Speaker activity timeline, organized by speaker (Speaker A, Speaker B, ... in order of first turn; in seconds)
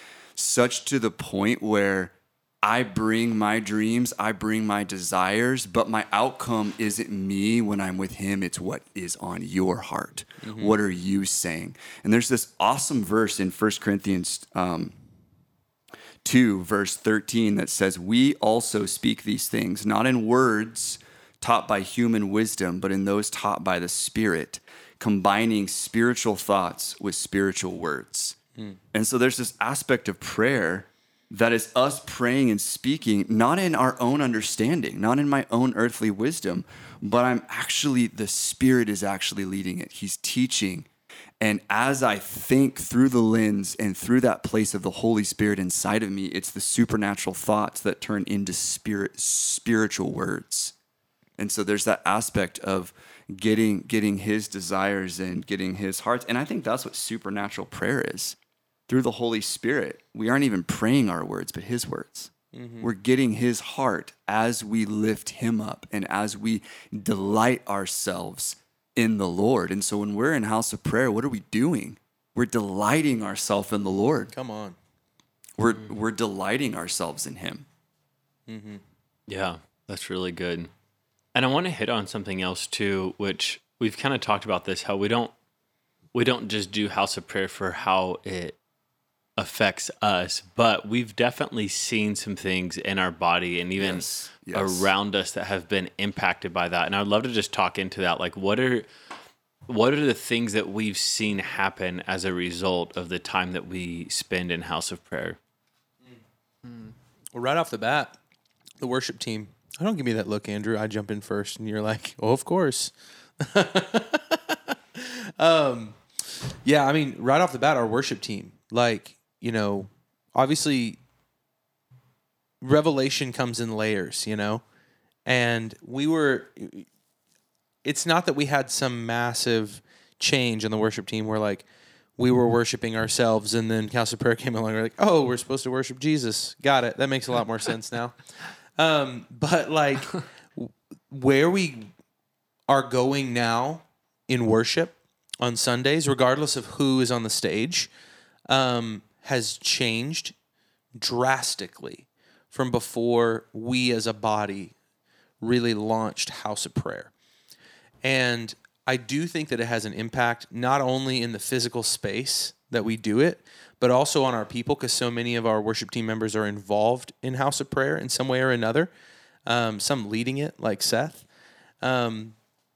Speaker A: 0.3-14.9, 16.2-28.4, 28.9-40.9, 41.4-50.7, 51.4-58.4, 58.9-74.3, 75.6-77.7, 93.8-94.9
Speaker B: 10.4-10.7, 62.5-62.9, 74.3-74.8, 78.5-78.8, 107.3-108.2, 108.8-116.0, 116.6-121.0, 122.6-124.6, 125.2-126.9, 127.8-131.6, 132.2-138.2, 138.8-141.9, 142.7-147.9, 148.5-150.3, 151.0-154.7, 155.4-157.1, 158.0-168.9, 169.4-171.2, 171.8-172.3
Speaker C: 79.3-80.7, 81.3-85.3, 86.1-88.6, 89.4-98.9, 99.7-105.4